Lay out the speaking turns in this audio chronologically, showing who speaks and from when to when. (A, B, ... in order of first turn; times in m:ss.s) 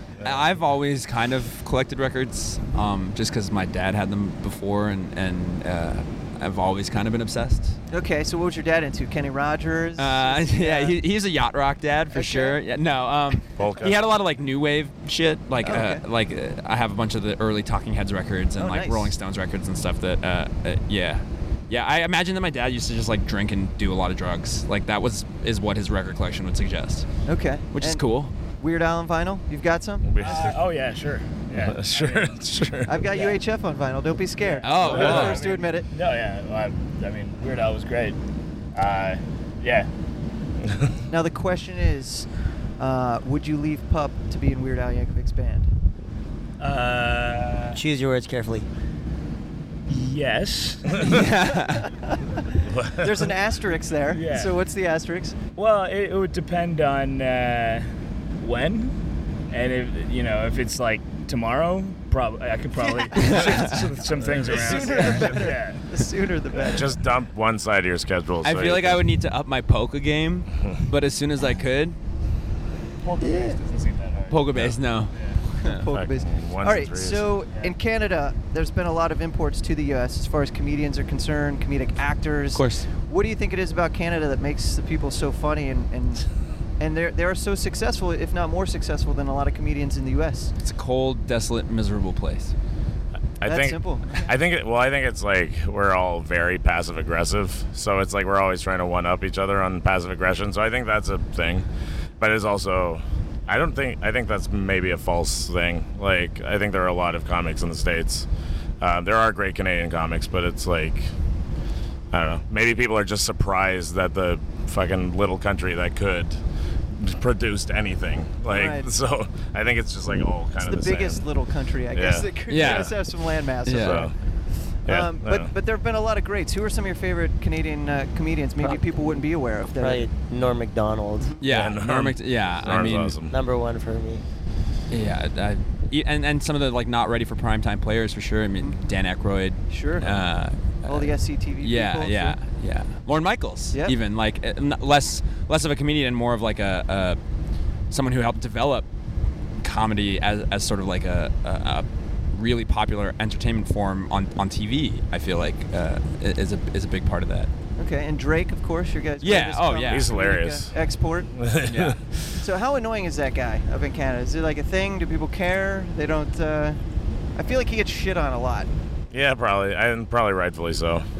0:00.2-0:07.8 A
0:00.2-0:00.4 B
0:07.9-0:10.9 C
0:10.0-0:27.1 A
0:12.1-0:12.6 C
0:13.6-0:14.0 B
0:15.6-0:16.0 C
0:18.6-0:19.1 C
0:27.2-0:30.6 C
0:27.7-0:28.3 A
0:30.0-0:30.6 B
0:30.2-0:32.4 D
0:31.5-0:33.0 B
0:32.8-0:35.9 C
0:33.0-0:33.4 D
0:34.4-0:38.2 D
0:34.6-0:35.5 A
0:35.0-0:35.3 B
0:38.7-0:39.9 D
0:41.1-0:42.3 C
0:42.8-0:45.7 C
0:46.6-0:47.8 D
0:47.8-0:48.7 E
0:49.9-0:51.2 D
0:51.0-0:51.9 A
0:51.8-0:55.4 C
0:52.6-0:53.3 B
0:54.1-0:54.6 D
0:55.6-0:59.0 D
0:59.5-1:05.8 D
1:02.8-1:03.4 C
1:03.1-1:03.8 A
1:04.3-1:05.3 B
1:04.4-1:07.0 C
1:06.7-1:09.1 B
1:08.4-1:12.0 A
1:13.0-1:14.5 D
1:14.3-1:15.8 A
1:14.5-1:14.8 B
1:15.1-1:15.4 D
1:15.6-1:26.2 C
1:15.9-1:17.4 B
1:22.5-1:22.9 A
1:26.8-1:30.5 C
1:30.6-1:32.5 A
1:33.4-1:41.6 B
1:33.4-1:34.3 C
1:42.2-1:48.3 B
1:48.8-1:51.1 B
1:52.1-1:56.4 B
1:56.9-2:01.2 B
1:58.5-1:58.9 C
2:00.6-2:04.1 C
2:01.9-2:02.9 B
2:02.5-2:03.0 A
2:03.6-2:04.1 A
2:03.7-2:04.1 B
2:04.8-2:05.5 B
2:04.9-2:10.1 C
2:09.8-2:11.4 E
2:11.4-2:13.2 A
2:11.4-2:13.4 B
2:13.3-2:14.2 E
2:14.9-2:27.2 A
2:19.7-2:20.1 C
2:20.8-2:22.4 C
2:27.9-2:28.9 A
2:29.6-2:37.5 A
2:37.8-2:41.3 C
2:39.2-2:40.2 A
2:39.9-2:40.7 B
2:41.3-2:42.0 B
2:41.6-2:42.0 A
2:42.4-2:46.8 C
2:47.4-2:48.7 C
2:49.1-2:51.0 B